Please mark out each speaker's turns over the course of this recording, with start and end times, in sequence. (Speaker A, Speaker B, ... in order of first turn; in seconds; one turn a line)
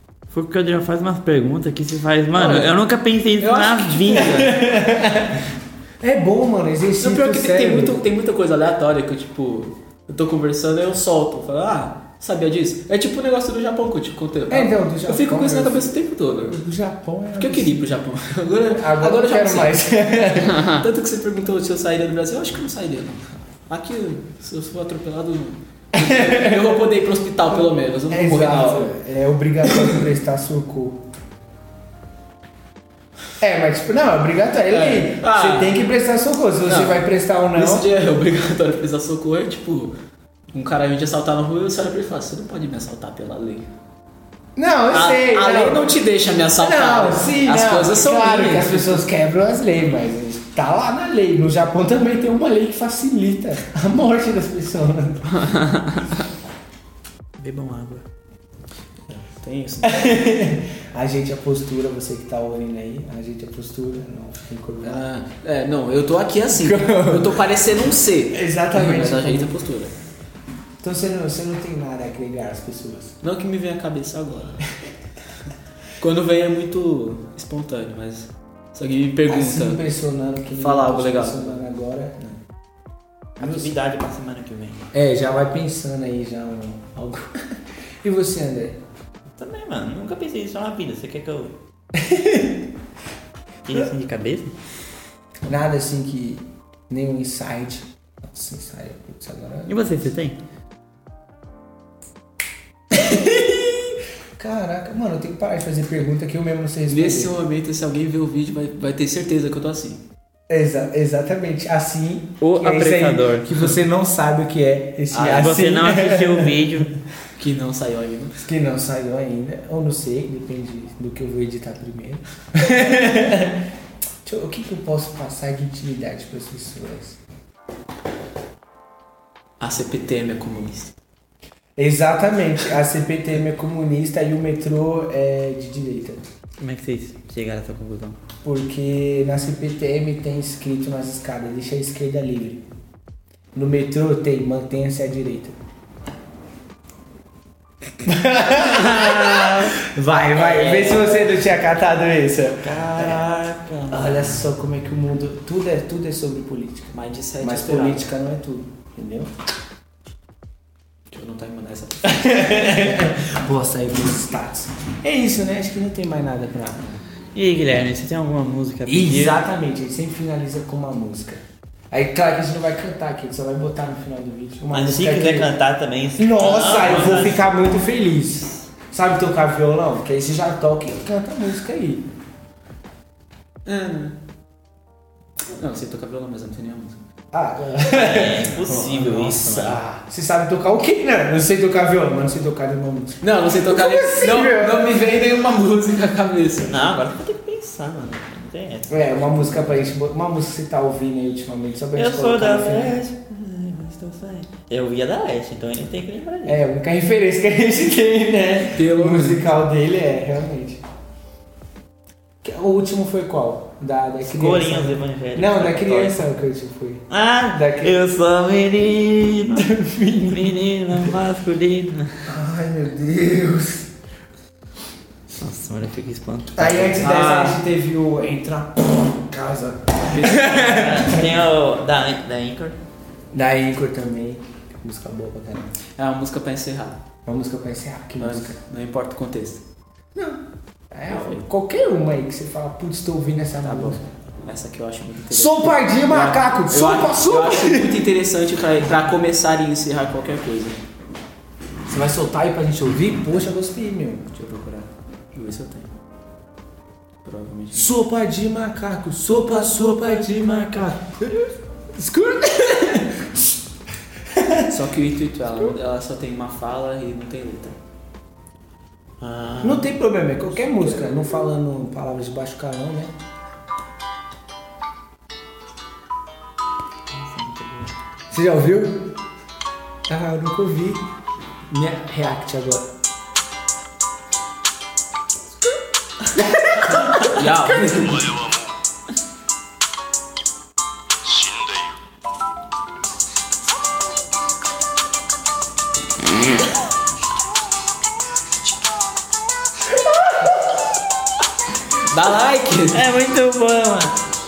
Speaker A: 0.3-4.7
Speaker B: 2.4-2.8
Speaker B: 3.4-4.5
Speaker C: 4.1-8.0
Speaker B: 7.0-16.6
Speaker C: 14.5-17.8
Speaker B: 17.4-28.9
Speaker C: 18.7-20.6
Speaker A: 20.5-20.8
Speaker C: 25.9-26.8
Speaker C: 28.1-31.0
Speaker C: 33.4-37.9
Speaker B: 34.7-35.8
Speaker B: 36.6-39.9
Speaker B: 40.5-43.7
Speaker C: 44.5-45.9
Speaker B: 44.9-49.1
Speaker C: 46.6-55.5
Speaker A: 55.3-56.2
Speaker A: 57.4-58.0
Speaker B: 59.1-60.0
Speaker C: 59.8-65.0
Speaker B: 64.8-69.9
Speaker C: 66.5-67.4
Speaker C: 68.3-69.5
Speaker C: 70.8-73.2
Speaker B: 73.2-74.6
Speaker B: 76.0-79.8
Speaker C: 79.3-82.4
Speaker B: 80.5-81.6
Speaker A: 83.4-84.8
Speaker C: 83.4-83.8
Speaker C: 84.9-88.8
Speaker A: 89.4-91.5
Speaker C: 92.0-92.6
Speaker A: 93.7-94.5
Speaker C: 95.5-99.8
Speaker A: 99.7-100.4
Speaker C: 102.9-107.3
Speaker B: 106.9-110.0
Speaker C: 110.5-116.7
Speaker A: 112.4-113.7
Speaker A: 115.1-117.0
Speaker B: 117.3-118.4
Speaker C: 118.4-123.6
Speaker C: 124.2-127.2
Speaker B: 129.6-130.9
Speaker C: 131.8-136.2
Speaker A: 136.6-138.2
Speaker C: 138.4-142.6
Speaker C: 143.5-145.6
Speaker C: 148.0-153.2
Speaker A: 148.5-149.8
Speaker A: 150.3-151.4
Speaker A: 152.6-154.5
Speaker C: 153.9-159.3
Speaker B: 156.9-158.1
Speaker B: 161.1-162.9
Speaker C: 162.0-166.9
Speaker A: 167.3-169.4
Speaker C: 168.9-175.5
Speaker A: 174.7-177.6
Speaker C: 176.2-182.1
Speaker B: 183.7-184.2
Speaker B: 185.5-187.0
Speaker C: 187.3-188.6
Speaker A: 187.8-189.8
Speaker B: 188.7-189.8
Speaker C: 189.4-195.1
Speaker B: 193.2-196.8
Speaker A: 196.6-199.9
Speaker C: 198.9-203.0
Speaker A: 201.9-206.6
Speaker C: 206.5-210.8
Speaker B: 208.7-209.4
Speaker C: 212.4-217.9
Speaker A: 214.3-216.2
Speaker A: 217.1-219.8
Speaker C: 219.6-221.1
Speaker A: 220.3-222.3
Speaker C: 222.3-223.9
Speaker A: 225.3-227.1
Speaker C: 226.6-231.3
Speaker B: 226.9-227.6
Speaker B: 230.0-230.5
Speaker A: 230.5-232.8
Speaker C: 233.3-235.7
Speaker B: 236.0-237.0
Speaker C: 237.2-238.6
Speaker B: 238.2-239.6
Speaker C: 240.2-244.0
Speaker B: 241.1-241.4
Speaker B: 244.4-250.8
Speaker C: 245.3-248.0
Speaker C: 251.9-254.4
Speaker B: 254.4-255.9
Speaker B: 257.2-258.0
Speaker C: 257.7-263.6
Speaker A: 259.3-261.0
Speaker C: 264.3-264.7
Speaker B: 264.7-267.8
Speaker A: 269.2-269.9
Speaker C: 269.6-273.1
Speaker A: 277.1-277.9
Speaker C: 278.3-279.2
Speaker C: 280.1-281.1
Speaker C: 281.7-282.9
Speaker C: 286.3-288.3
Speaker B: 287.2-288.4
Speaker B: 302.1-303.0
Speaker A: 302.9-304.2